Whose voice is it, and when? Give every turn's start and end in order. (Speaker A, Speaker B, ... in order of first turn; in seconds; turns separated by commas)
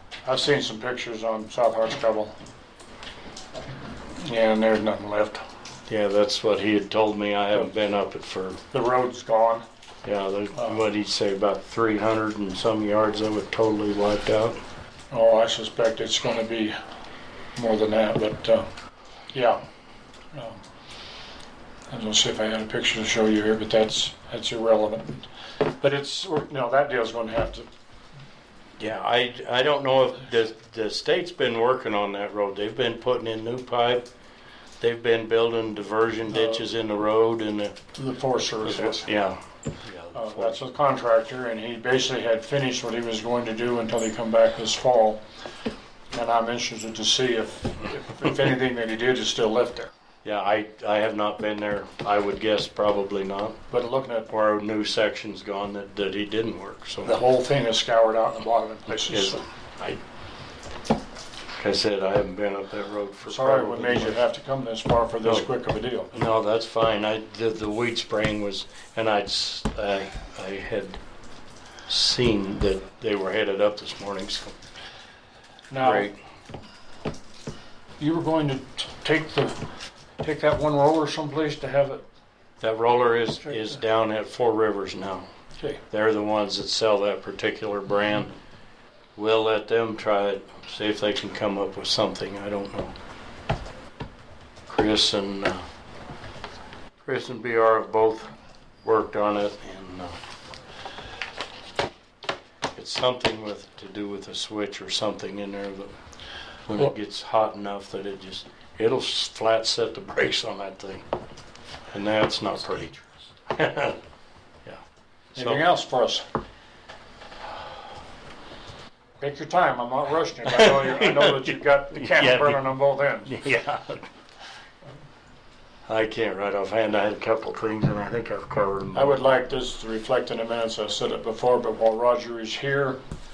Speaker A: 0.2-2.3, Speaker A: 4.2-5.4, Speaker B: 5.9-8.6, Speaker A: 8.7-9.6, Speaker B: 10.0-14.6, Speaker A: 10.6-10.8, Speaker A: 15.1-16.8, Speaker A: 17.6-18.7, Speaker A: 19.3-19.6, Speaker A: 20.3-20.6, Speaker A: 21.9-27.7, Speaker B: 28.8-34.0, Speaker B: 34.8-37.8, Speaker A: 36.3-36.6, Speaker A: 38.0-39.1, Speaker B: 38.6-40.6, Speaker A: 40.1-45.2, Speaker A: 46.1-49.9, Speaker B: 50.2-53.6, Speaker A: 53.7-54.3, Speaker B: 54.3-57.2, Speaker A: 57.0-59.4, Speaker B: 58.9-60.0, Speaker B: 61.6-64.2, Speaker A: 63.2-66.1, Speaker B: 66.1-71.0, Speaker B: 71.9-74.5, Speaker A: 75.7-76.1, Speaker B: 75.8-76.1, Speaker A: 78.0-79.6, Speaker A: 80.2-82.0, Speaker B: 82.6-85.3, Speaker B: 85.9-88.3, Speaker B: 89.2-92.9, Speaker B: 94.7-95.7, Speaker B: 97.0-100.2, Speaker B: 102.7-105.9, Speaker B: 106.7-111.0, Speaker B: 111.9-112.9, Speaker B: 113.5-114.0, Speaker A: 115.3-116.2, Speaker B: 115.3-115.6, Speaker A: 119.2-123.4, Speaker B: 120.5-124.1, Speaker B: 125.9-129.3, Speaker A: 128.9-133.0